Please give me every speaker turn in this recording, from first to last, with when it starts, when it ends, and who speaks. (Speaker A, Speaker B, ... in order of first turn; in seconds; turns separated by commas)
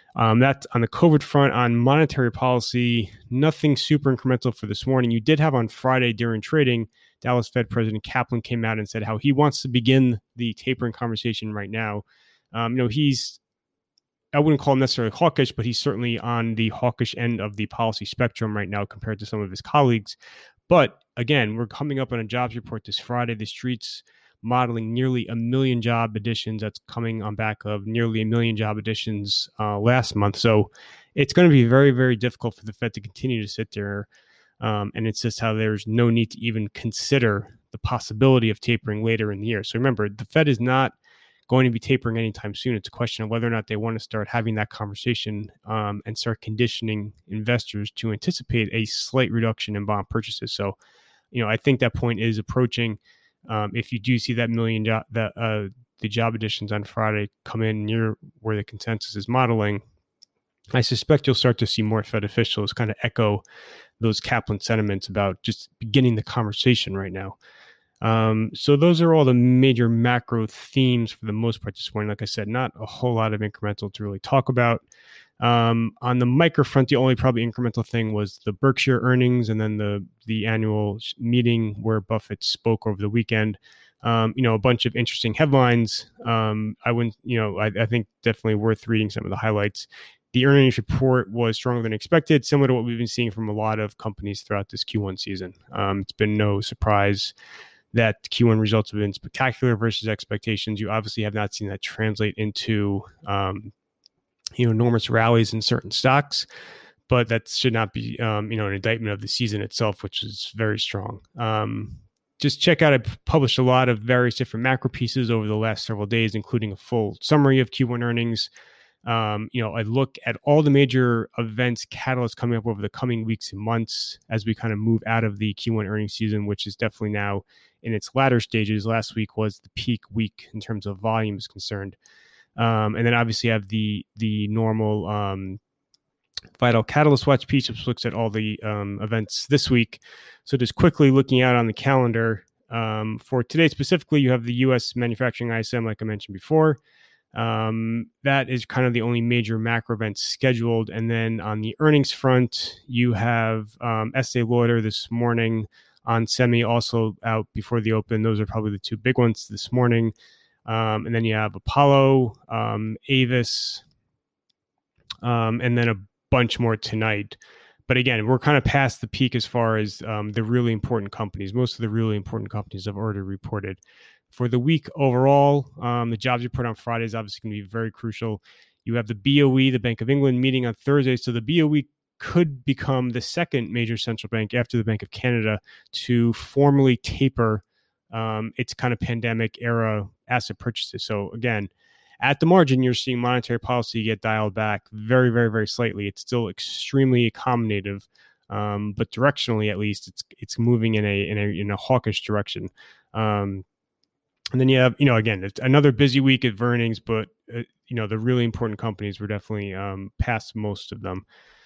Speaker A: 0.2-13.4, Speaker A: 14.3-20.2, Speaker A: 20.7-34.1, Speaker A: 34.6-41.0, Speaker A: 41.5-50.8, Speaker A: 51.3-59.8, Speaker A: 60.7-63.4, Speaker A: 64.0-67.4, Speaker A: 68.0-74.8, Speaker A: 75.4-97.3, Speaker A: 97.9-103.7, Speaker A: 104.6-106.5, Speaker A: 107.1-118.5, Speaker A: 119.0-132.0, Speaker A: 132.6-135.6, Speaker A: 136.6-146.8, Speaker A: 147.3-160.1, Speaker A: 160.7-163.8, Speaker A: 165.2-173.8, Speaker A: 174.3-203.7, Speaker A: 204.5-211.2